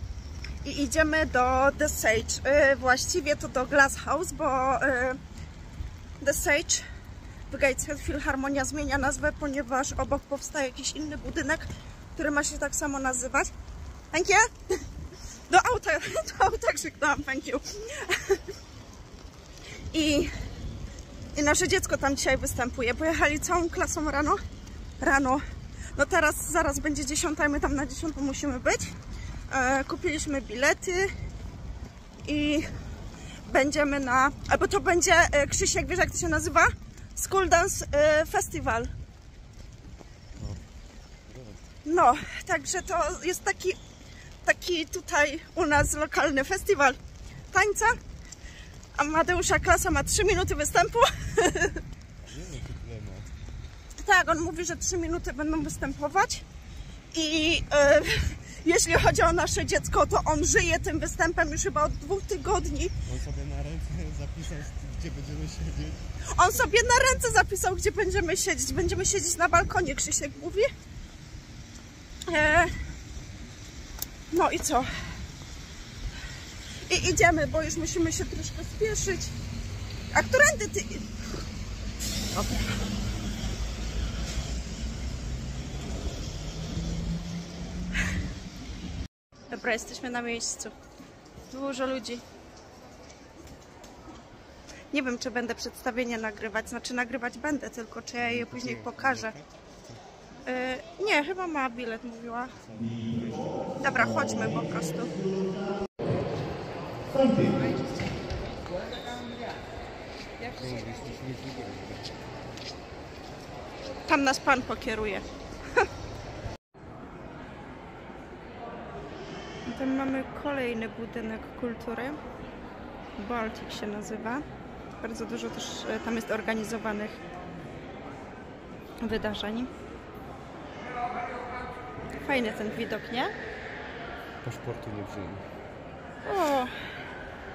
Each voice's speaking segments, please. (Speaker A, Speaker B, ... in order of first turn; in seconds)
Speaker A: 0.6-5.2, 6.2-6.9, 7.5-13.5, 14.1-14.8, 15.5-18.4, 19.9-20.3, 21.3-24.4, 25.0-25.4, 25.9-28.9, 29.5-31.1, 32.2-32.7, 33.4-38.9, 41.8-43.8, 44.4-47.0, 47.5-48.0, 49.0-51.8, 53.9-56.5, 57.1-63.0, 66.3-70.7, 72.3-72.8, 74.3-74.9, 76.9-79.3, 80.1-81.1, 82.3-82.7, 89.5-90.7, 91.5-92.2, 94.9-99.3, 100.5-102.5, 103.8-105.2, 114.0-115.2, 119.7-122.2, 123.2-124.4, 125.0-127.2, 129.0-129.7, 132.2-133.3, 136.2-136.7
Speaker B: 40.4-40.6, 41.2-41.6, 52.2-53.3, 63.1-66.0, 98.2-99.5, 102.6-103.7, 110.5-112.1, 134.4-135.4